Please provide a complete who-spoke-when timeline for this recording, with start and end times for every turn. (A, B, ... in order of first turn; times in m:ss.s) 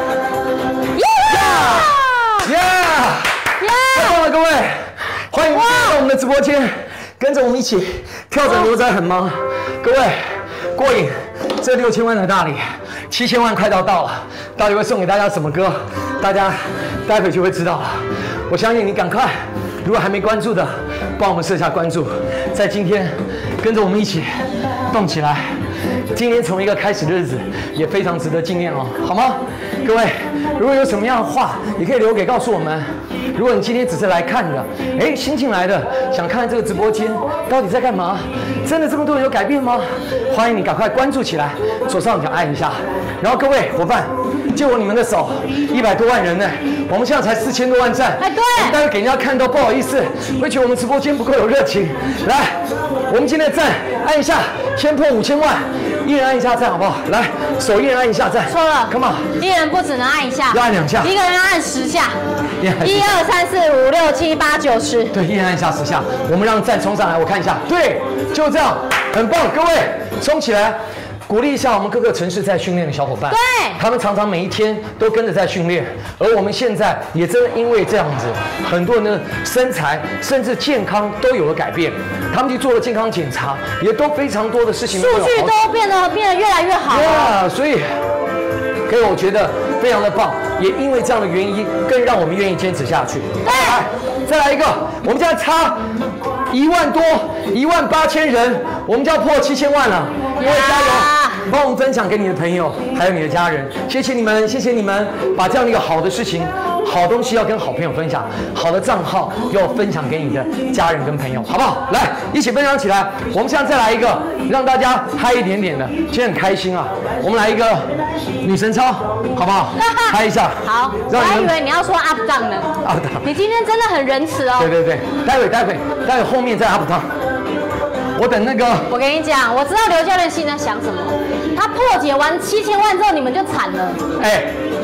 0:00.9-0:02.5 A
0:01.3-0:03.4 B
0:03.6-0:04.2 A
0:03.9-0:25.6 B
0:05.5-0:06.0 A
0:26.1-0:59.3 B
0:48.2-0:48.8 A
0:58.5-1:02.2 A
1:00.5-1:01.1 B
1:02.6-1:03.2 B
1:02.8-1:05.1 A
1:05.1-1:25.5 B
1:13.3-1:13.8 A
1:24.9-1:27.4 A
1:26.9-1:27.9 B
1:28.9-1:35.8 B
1:33.4-1:33.8 A
1:36.5-2:01.5 B
1:40.4-1:41.4 A
1:59.8-2:04.7 A
2:02.8-2:03.2 B
2:04.6-2:07.1 B
2:08.1-2:08.9 B
2:08.9-2:14.0 A
2:14.2-2:14.5 B